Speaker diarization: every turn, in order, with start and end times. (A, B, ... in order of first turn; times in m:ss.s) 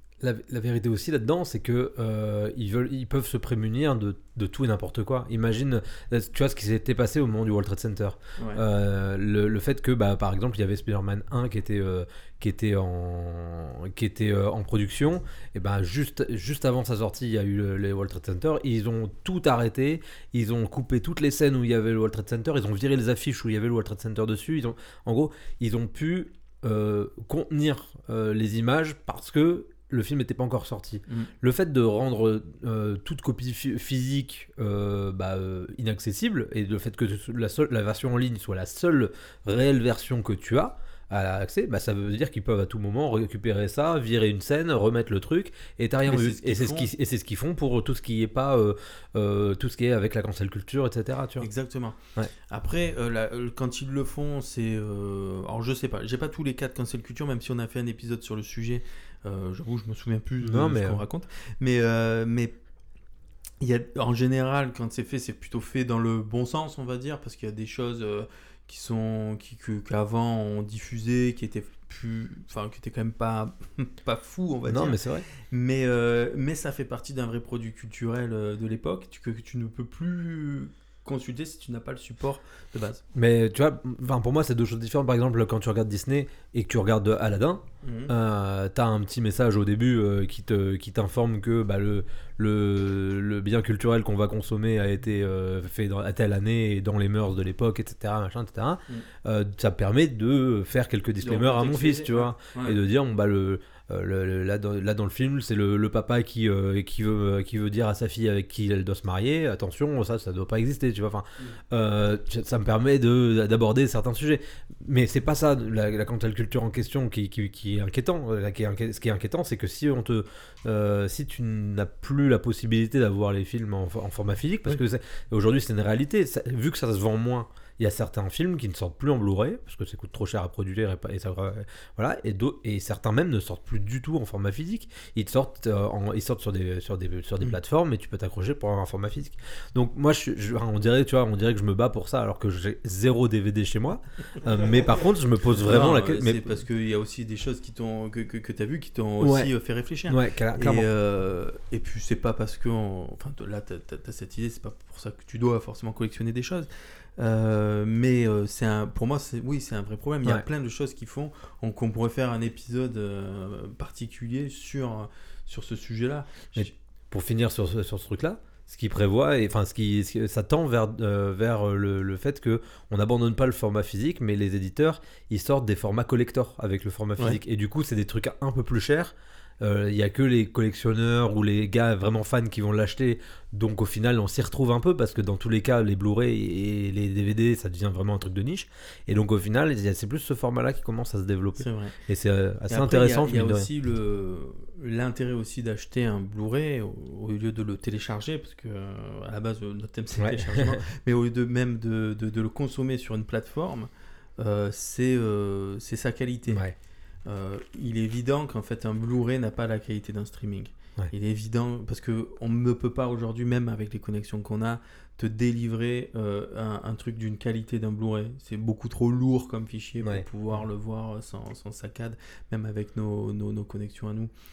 0:00.2-0:51.5 A
0:46.0-0:46.9 B
0:51.4-1:02.6 B
1:00.4-1:01.0 A
1:03.6-1:23.0 B
1:14.7-1:15.2 A
1:23.1-2:26.5 A
1:27.8-1:28.1 B
1:41.2-1:42.8 B
2:25.6-2:46.7 B
2:29.2-2:29.5 A
2:30.1-2:30.8 A
2:46.6-3:13.7 A
3:11.6-3:11.9 B
3:12.7-3:26.6 B
3:20.2-3:20.8 A
3:26.5-3:26.7 A
3:27.2-3:44.3 B